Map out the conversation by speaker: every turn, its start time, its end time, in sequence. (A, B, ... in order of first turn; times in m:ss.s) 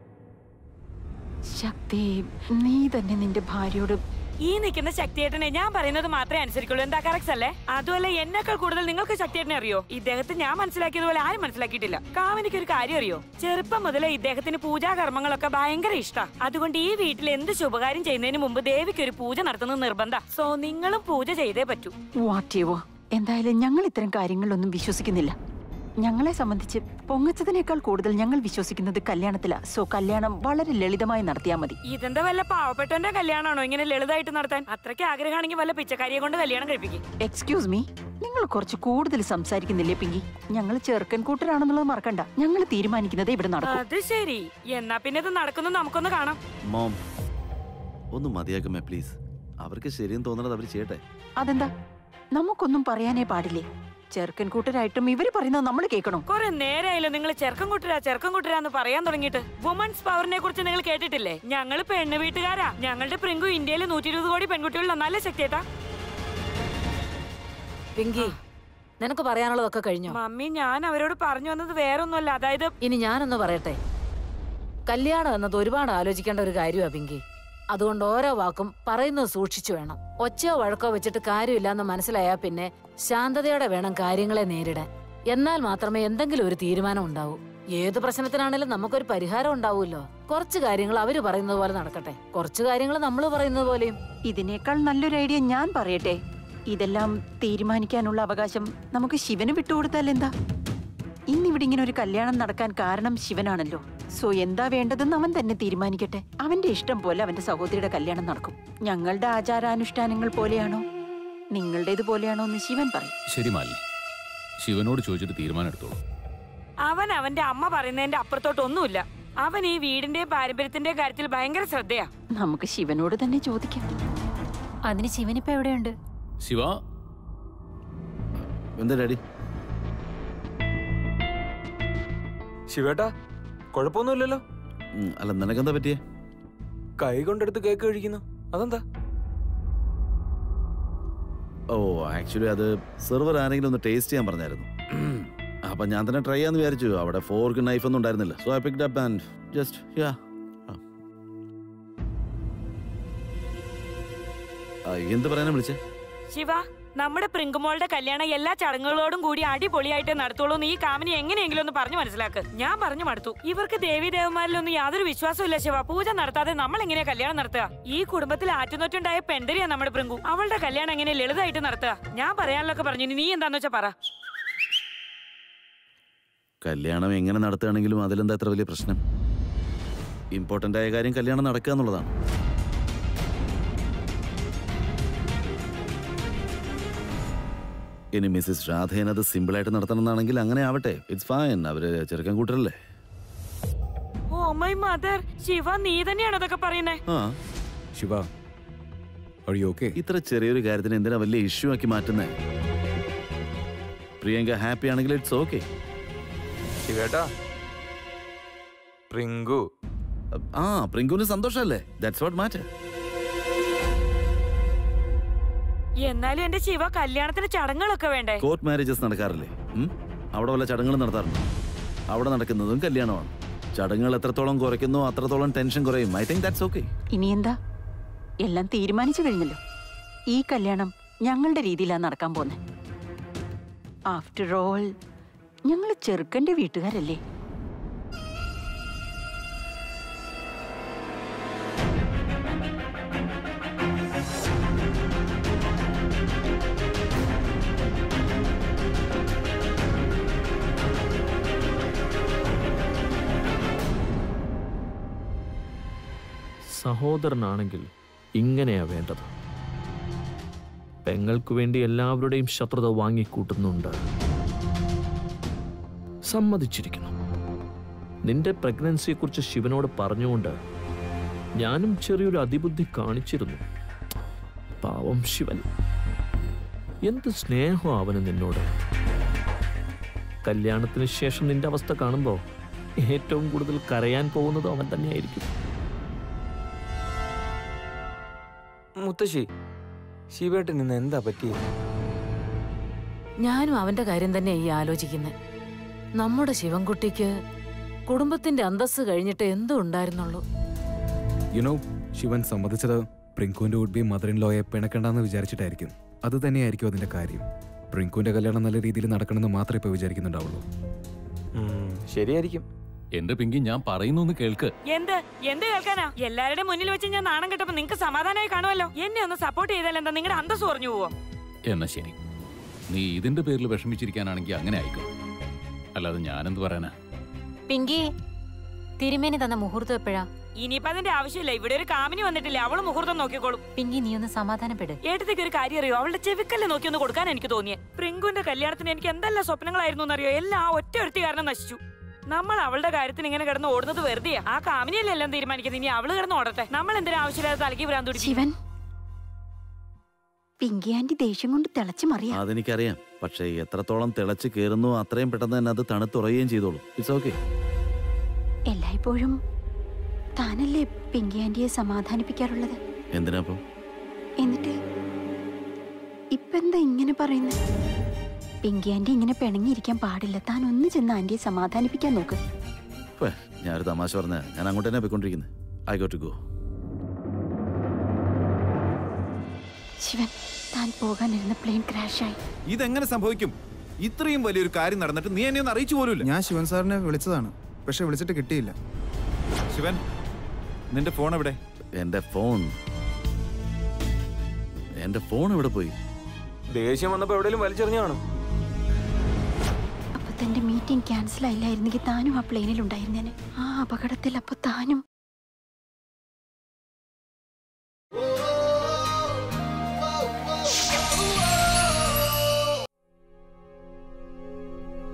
0:01.5-0:04.0 A
0:04.4-0:21.9 B
0:22.2-0:25.3 A
0:26.0-0:31.8 A
0:31.8-0:37.0 B
0:37.2-0:43.8 A
0:43.6-0:46.4 B
0:46.7-0:47.0 C
0:48.1-0:51.0 C
0:51.4-0:51.7 A
0:52.3-0:56.2 A
0:56.3-1:05.6 B
1:08.0-1:08.3 D
1:09.0-1:10.2 D
1:10.1-1:12.7 B
1:12.8-1:13.8 D
1:14.9-1:17.2 D
1:17.7-1:34.0 D
1:34.2-1:36.2 A
1:36.7-1:40.3 A
1:41.3-1:50.8 A
1:51.5-1:53.1 A
1:53.3-1:53.8 E
1:54.6-1:56.0 E
1:56.8-2:02.1 B
2:02.4-2:03.8 A
2:04.9-2:05.9 F
2:06.4-2:06.8 E
2:08.4-2:09.2 C
2:12.7-2:13.1 G
2:13.7-2:14.4 G
2:15.0-2:16.0 C
2:17.0-2:18.8 G
2:21.7-2:30.8 C
2:34.9-2:35.8 C
2:36.3-2:53.9 B
2:56.6-2:59.0 C
3:00.3-3:02.1 C
3:08.1-3:12.7 C
3:14.3-3:17.0 B
3:17.1-3:17.4 C
3:18.0-3:18.3 H
3:19.5-3:20.0 H
3:20.0-3:22.3 C
3:24.2-3:25.6 C
3:26.9-3:27.2 G
3:29.1-3:29.6 G
3:30.4-3:32.6 C
3:36.0-3:38.4 B
3:38.4-3:41.4 C
3:42.1-3:46.9 C
3:47.1-3:47.6 A
3:48.4-3:49.6 A
3:50.3-3:52.6 A
3:54.1-3:54.9 A
3:55.7-3:57.2 A
4:16.7-4:19.3 I
4:21.0-4:24.0 I
4:26.2-4:27.1 I
4:28.2-4:30.6 I
4:31.6-4:33.6 I
4:34.8-4:35.6 I
4:37.0-4:38.7 I
4:40.4-4:42.4 I
4:43.0-4:45.5 I
4:49.0-4:49.4 G
4:50.3-4:51.5 G
4:53.4-4:55.3 D
4:56.2-4:57.3 D
4:58.1-5:00.4 D
5:01.5-5:10.6 H
5:11.6-5:12.6 G
5:13.1-5:14.7 E
5:14.9-5:21.1 B
5:21.7-5:22.2 E
5:22.9-5:25.0 E
5:26.0-5:26.9 E
5:27.7-5:28.1 F
5:29.0-5:30.2 F
5:30.6-5:33.6 B
5:33.8-5:35.0 F
5:35.0-5:41.8 B
5:42.3-5:48.4 B
5:48.2-5:48.5 A
5:50.6-5:52.4 A
5:52.3-5:57.4 C
5:58.7-5:59.4 A
6:00.4-6:02.8 A
6:03.1-6:03.6 C
6:04.4-6:04.7 A
6:06.3-6:07.6 A
6:08.6-6:12.4 A
6:13.2-6:16.4 C
6:20.0-6:22.4 A
6:22.7-6:26.2 J
6:26.2-6:28.7 K
6:29.7-6:30.0 J
6:30.9-6:31.6 J
6:31.9-6:32.7 C
6:35.0-6:36.0 C
6:36.7-6:38.2 G
6:40.2-6:45.0 A